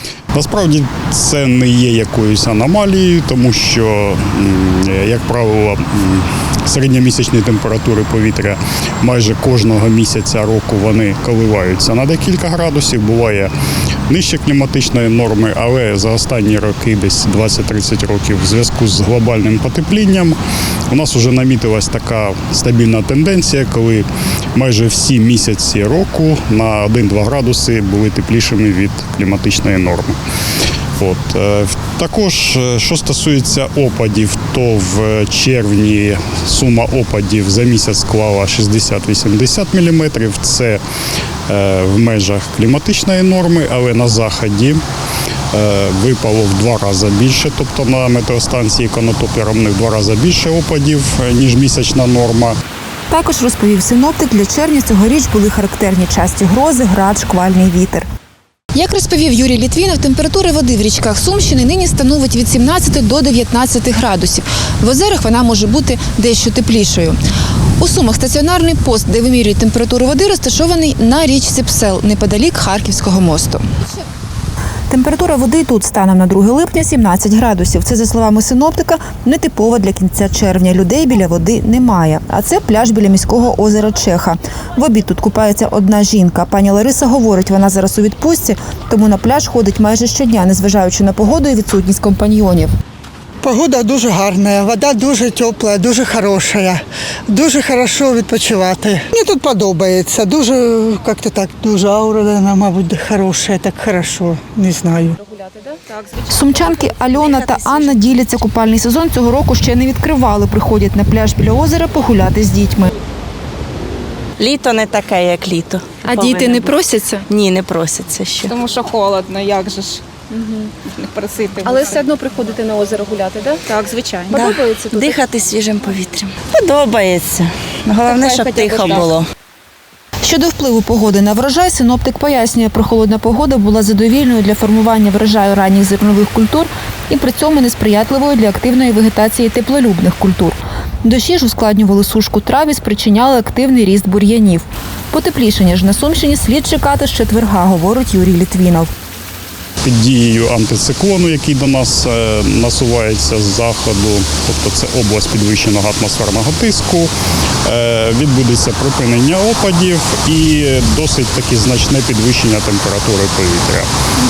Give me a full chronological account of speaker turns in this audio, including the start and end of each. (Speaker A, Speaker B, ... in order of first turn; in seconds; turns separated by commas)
Speaker A: 0.3-13.5, Speaker A: 14.1-20.4, Speaker A: 20.9-30.2, Speaker A: 31.0-40.8, Speaker A: 41.5-44.8, Speaker A: 45.5-52.5, Speaker B: 53.1-58.1, Speaker B: 58.7-67.2, Speaker B: 67.8-73.6, Speaker B: 74.9-92.7, Speaker C: 93.4-105.2, Speaker D: 105.4-105.8, Speaker B: 106.3-112.9, Speaker E: 107.1-108.3, Speaker E: 114.4-116.7, Speaker B: 116.0-117.3, Speaker E: 117.3-118.5, Speaker D: 118.5-120.0, Speaker B: 120.3-120.7, Speaker D: 120.8-122.0, Speaker B: 121.6-125.2, Speaker D: 123.7-124.2, Speaker E: 124.3-129.3, Speaker D: 128.1-129.1, Speaker B: 130.2-148.9, Speaker A: 149.8-157.1, Speaker A: 157.6-163.9